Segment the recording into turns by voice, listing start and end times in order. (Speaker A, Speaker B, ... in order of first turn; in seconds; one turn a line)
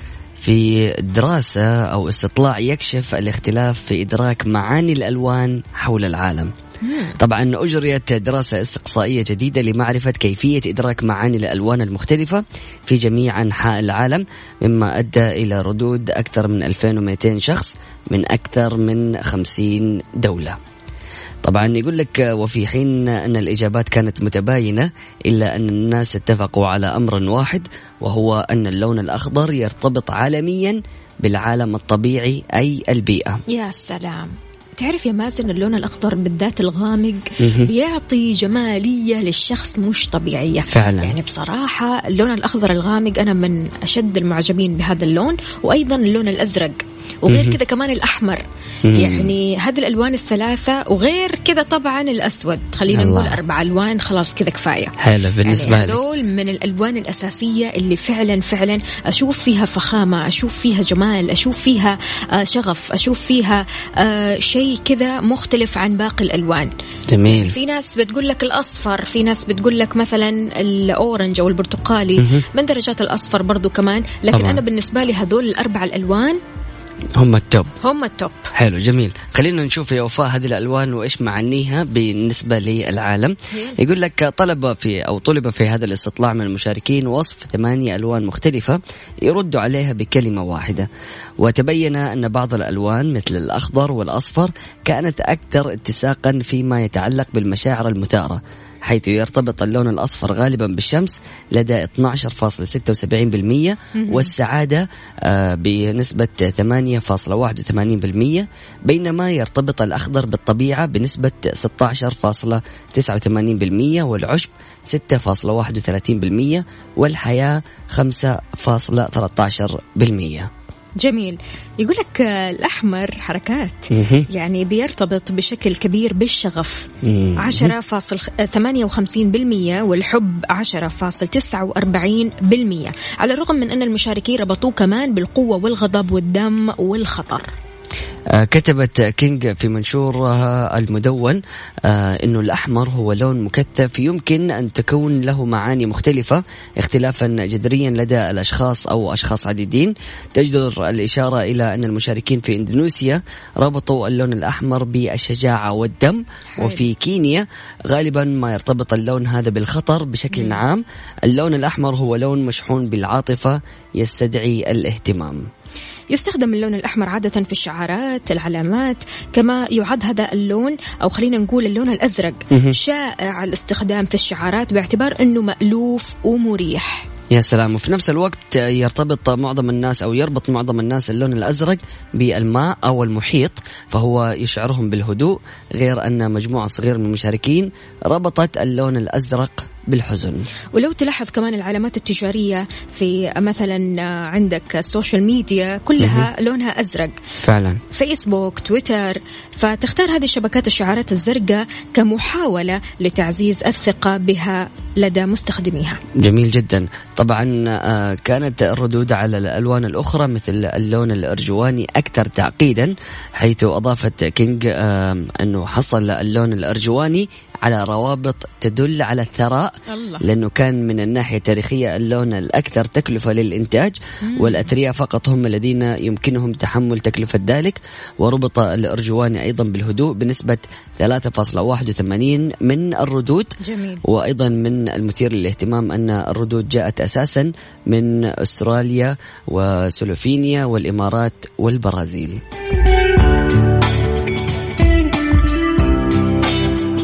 Speaker A: 0.4-6.5
Speaker B: 6.8-7.2
Speaker A: 7.2-20.6
Speaker A: 21.4-33.4
Speaker B: 33.5-48.4
Speaker A: 37.4-37.7
Speaker A: 40.7-41.1
Speaker A: 47.3-47.5
Speaker A: 48.9-49.3
Speaker B: 49.0-66.7
Speaker A: 52.9-53.4
Speaker A: 55.0-56.0
Speaker A: 67.1-67.5
Speaker B: 67.3-76.4
Speaker A: 72.2-72.4
Speaker A: 74.3-74.6
Speaker A: 77.1-77.7
Speaker B: 77.8-78.5
Speaker A: 78.5-90.9
Speaker B: 83.5-83.8
Speaker A: 91.4-120.5
Speaker B: 103.9-104.3
Speaker B: 121.0-137.5
Speaker A: 123.9-124.2
Speaker A: 127.0-127.7
Speaker A: 138.3-165.4
Speaker B: 156.5-156.8
Speaker B: 160.3-160.6
Speaker B: 166.1-177.1
Speaker A: 177.3-190.5
Speaker B: 190.7-197.1
Speaker A: 196.0-196.3
Speaker A: 197.4-197.8
Speaker B: 197.9-206.0
Speaker A: 206.2-242.4
Speaker B: 219.9-220.2
Speaker B: 224.2-224.7
Speaker B: 233.6-234.0